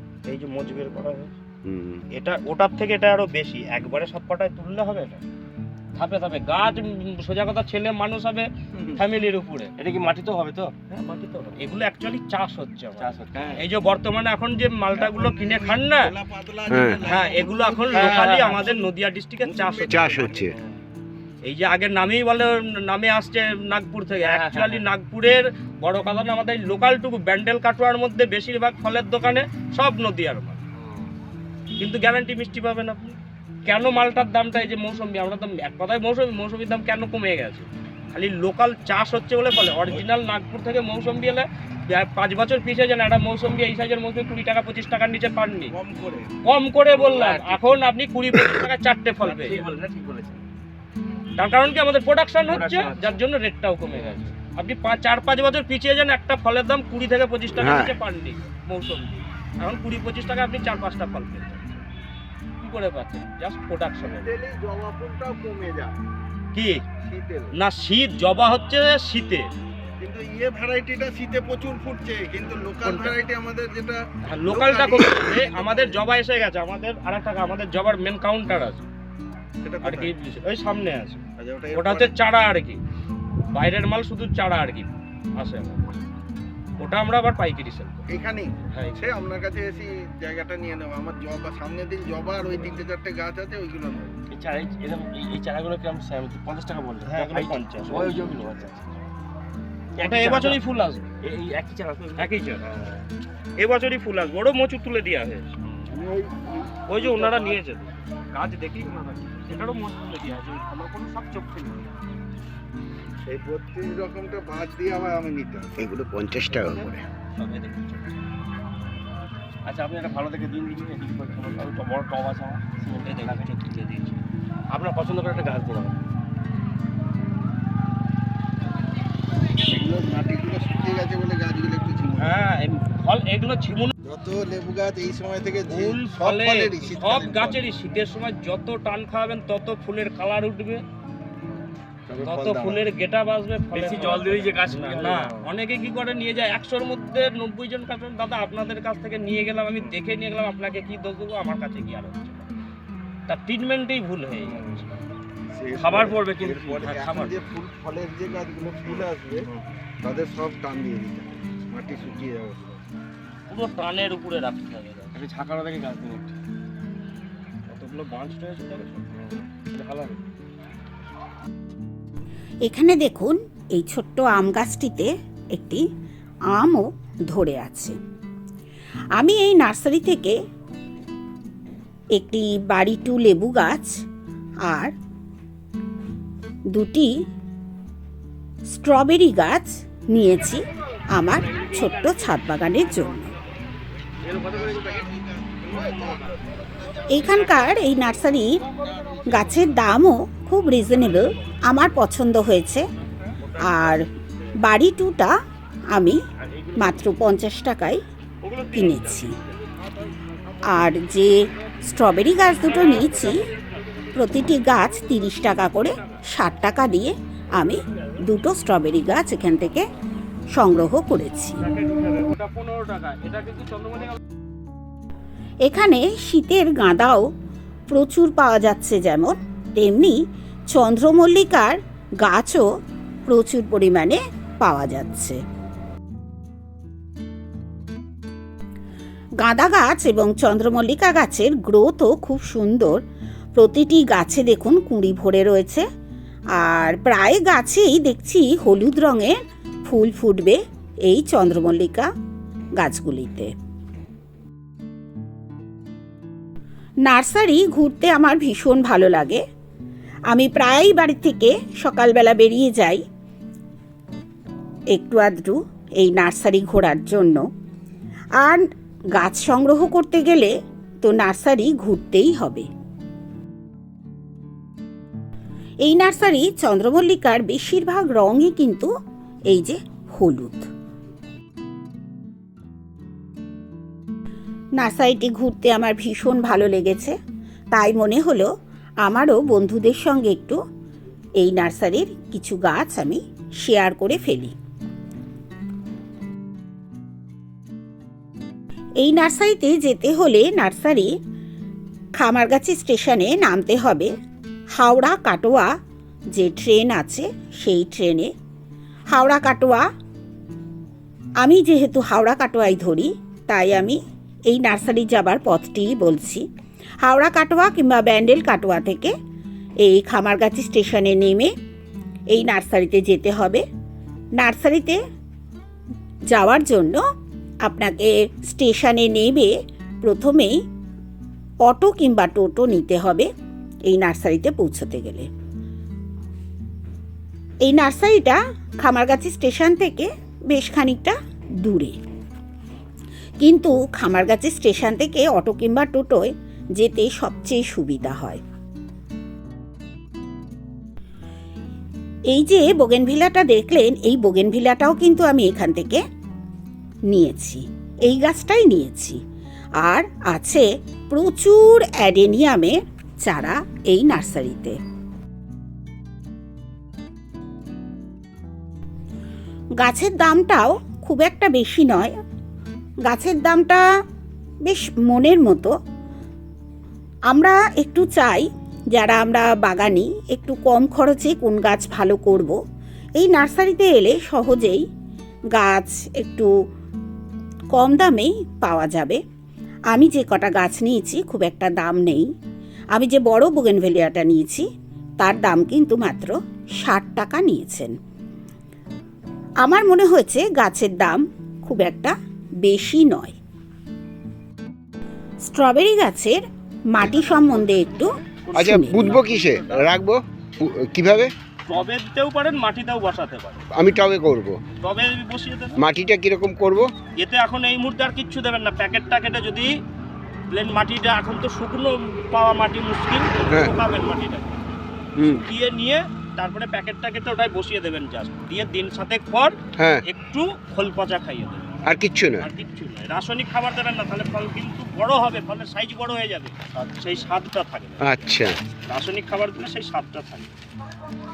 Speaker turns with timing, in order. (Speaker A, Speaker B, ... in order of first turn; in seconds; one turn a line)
Speaker A: 0.3-1.3
Speaker B: 1.6-2.0
Speaker A: 2.1-5.2
Speaker A: 6.0-9.7
Speaker C: 9.8-10.7
Speaker A: 10.9-16.1
Speaker C: 13.0-13.7
Speaker D: 15.0-20.5
Speaker B: 16.7-17.0
Speaker A: 17.0-20.2
Speaker C: 17.9-18.7
Speaker B: 19.9-20.6
Speaker A: 21.5-30.6
Speaker C: 24.2-24.9
Speaker C: 30.8-31.1
Speaker A: 31.8-45.8
Speaker D: 45.7-46.3
Speaker A: 46.4-49.6
Speaker C: 46.9-47.8
Speaker C: 49.2-50.4
Speaker A: 51.4-61.8
Speaker C: 52.4-53.2
Speaker C: 53.9-54.2
Speaker B: 57.6-58.0
Speaker A: 62.6-64.4
Speaker D: 64.0-66.0
Speaker A: 66.5-66.8
Speaker D: 67.0-67.5
Speaker A: 67.6-69.5
Speaker D: 70.0-76.0
Speaker A: 72.8-73.2
Speaker A: 74.3-78.9
Speaker D: 79.6-80.1
Speaker A: 79.8-81.2
Speaker D: 81.4-82.2
Speaker A: 81.7-82.8
Speaker A: 83.5-85.9
Speaker A: 86.8-88.0
Speaker D: 88.1-94.2
Speaker A: 88.7-89.2
Speaker C: 94.3-98.9
Speaker A: 97.1-98.3
Speaker C: 100.0-100.6
Speaker A: 100.0-101.0
Speaker C: 101.2-103.0
Speaker A: 102.2-102.6
Speaker A: 103.6-105.5
Speaker D: 105.9-107.5
Speaker A: 106.9-111.9
Speaker D: 113.2-115.7
Speaker B: 115.8-117.0
Speaker A: 116.5-118.1
Speaker C: 119.7-123.5
Speaker A: 123.0-124.2
Speaker C: 124.7-126.0
Speaker D: 129.6-132.4
Speaker A: 132.2-133.9
Speaker D: 134.0-137.6
Speaker A: 135.7-140.8
Speaker D: 142.1-142.9
Speaker A: 142.2-152.5
Speaker C: 143.7-145.4
Speaker A: 153.3-155.0
Speaker C: 154.5-154.9
Speaker D: 155.5-159.5
Speaker C: 155.8-157.0
Speaker A: 155.8-156.3
Speaker A: 156.8-157.4
Speaker C: 158.9-159.6
Speaker D: 160.0-162.8
Speaker A: 163.5-165.1
Speaker C: 165.2-166.3
Speaker A: 167.7-169.1
Speaker C: 169.2-170.2
Speaker E: 172.7-175.8
Speaker E: 176.5-177.9
Speaker E: 179.2-180.4
Speaker E: 182.2-183.9
Speaker E: 184.7-184.9
Speaker E: 186.7-187.1
Speaker E: 188.7-193.3
Speaker C: 194.2-195.1
Speaker D: 194.3-197.1
Speaker C: 195.7-196.2
Speaker E: 197.1-198.6
Speaker D: 198.9-199.2
Speaker E: 199.3-202.8
Speaker E: 203.6-204.1
Speaker E: 204.6-205.3
Speaker E: 205.9-206.2
Speaker C: 206.5-206.9
Speaker E: 206.8-208.0
Speaker A: 208.4-208.9
Speaker E: 208.7-209.3
Speaker E: 210.7-213.5
Speaker E: 214.2-219.8
Speaker E: 220.5-221.6
Speaker A: 221.6-224.2
Speaker E: 225.6-227.3
Speaker E: 227.9-230.2
Speaker E: 230.7-232.7
Speaker E: 233.3-235.4
Speaker E: 239.4-243.0
Speaker E: 243.6-245.8
Speaker E: 246.6-252.1
Speaker E: 252.8-253.5
Speaker E: 257.1-259.4
Speaker E: 260.3-263.0
Speaker E: 264.9-267.4
Speaker E: 268.4-272.7
Speaker E: 275.8-278.9
Speaker E: 279.5-280.6
Speaker E: 284.8-287.1
Speaker E: 287.7-288.5
Speaker E: 289.0-290.6
Speaker E: 291.4-294.5
Speaker E: 299.0-301.1
Speaker E: 302.2-304.1
Speaker E: 304.8-305.7
Speaker E: 306.3-308.3
Speaker E: 309.1-309.8
Speaker E: 311.4-314.0
Speaker E: 314.5-316.4
Speaker E: 317.0-319.1
Speaker E: 319.8-321.5
Speaker E: 322.3-323.6
Speaker E: 324.4-325.0
Speaker E: 326.3-327.0
Speaker E: 327.6-330.6
Speaker E: 331.6-333.3
Speaker E: 333.9-335.3
Speaker E: 337.6-342.0
Speaker E: 343.4-348.4
Speaker E: 352.3-356.0
Speaker E: 357.1-359.2
Speaker E: 359.8-364.8
Speaker E: 369.8-372.1
Speaker E: 373.1-373.8
Speaker E: 374.6-375.7
Speaker E: 377.3-382.6
Speaker E: 383.2-384.8
Speaker E: 385.5-386.5
Speaker E: 387.7-389.2
Speaker E: 389.9-392.2
Speaker E: 392.9-394.6
Speaker E: 395.2-397.9
Speaker E: 399.6-403.4
Speaker E: 405.4-406.4
Speaker E: 406.9-409.2
Speaker A: 408.4-409.8
Speaker B: 408.6-411.3
Speaker A: 411.7-413.6
Speaker B: 413.7-414.6
Speaker A: 414.8-415.8
Speaker B: 415.8-416.9
Speaker A: 417.2-419.7
Speaker A: 420.5-424.5
Speaker B: 425.2-425.4
Speaker A: 425.3-431.7
Speaker B: 429.8-430.1
Speaker B: 431.9-432.5
Speaker A: 432.4-438.3
Speaker B: 438.0-438.6
Speaker A: 438.9-440.5